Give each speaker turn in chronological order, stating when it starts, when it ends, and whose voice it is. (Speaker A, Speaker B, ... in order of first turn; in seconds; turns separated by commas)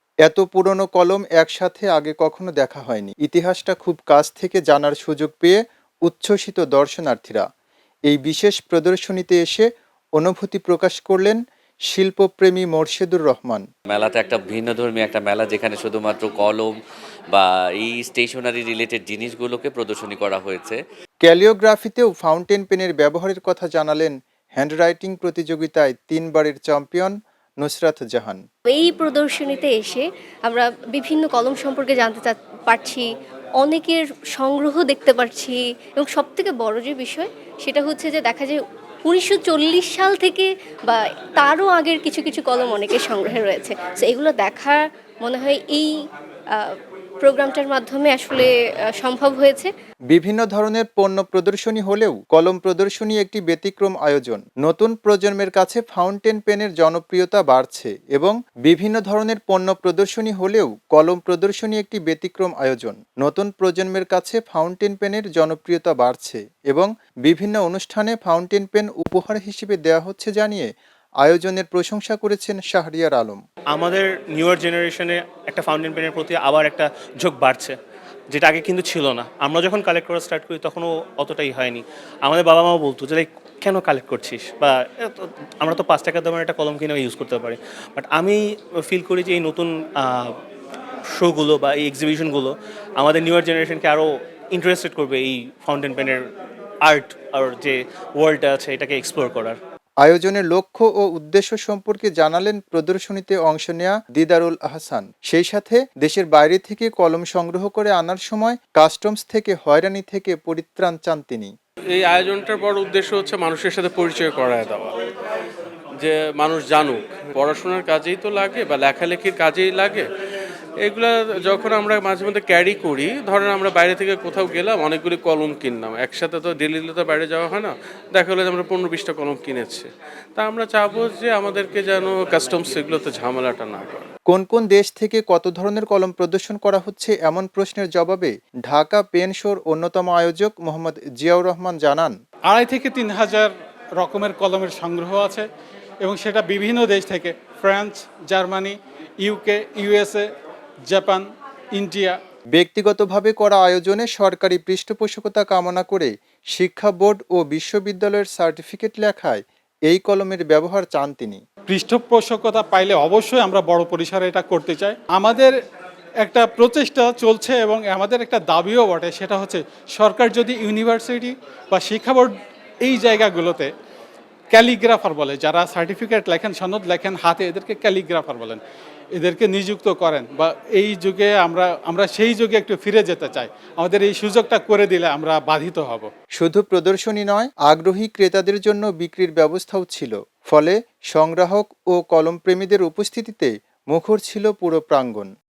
Speaker A: 0.2-7.5, Speaker A: 8.1-11.4, Speaker A: 11.9-13.7, Speaker B: 13.9-16.8, Speaker B: 17.3-20.8, Speaker A: 21.2-28.4, Speaker C: 28.7-33.1, Speaker C: 33.6-45.9, Speaker C: 46.5-49.7, Speaker A: 50.1-70.7, Speaker A: 71.2-73.4, Speaker D: 73.7-77.8, Speaker D: 78.3-90.3, Speaker D: 91.2-96.2, Speaker D: 96.8-99.6, Speaker A: 100.0-111.5, Speaker E: 112.0-114.9, Speaker E: 116.0-120.1, Speaker E: 120.8-134.1, Speaker A: 134.3-142.2, Speaker F: 142.5-145.5, Speaker F: 146.0-150.3, Speaker F: 150.9-152.2, Speaker A: 152.6-161.4, Speaker F: 161.7-165.6, Speaker F: 166.2-173.7, Speaker F: 174.5-178.6, Speaker F: 179.1-186.1, Speaker A: 186.3-195.3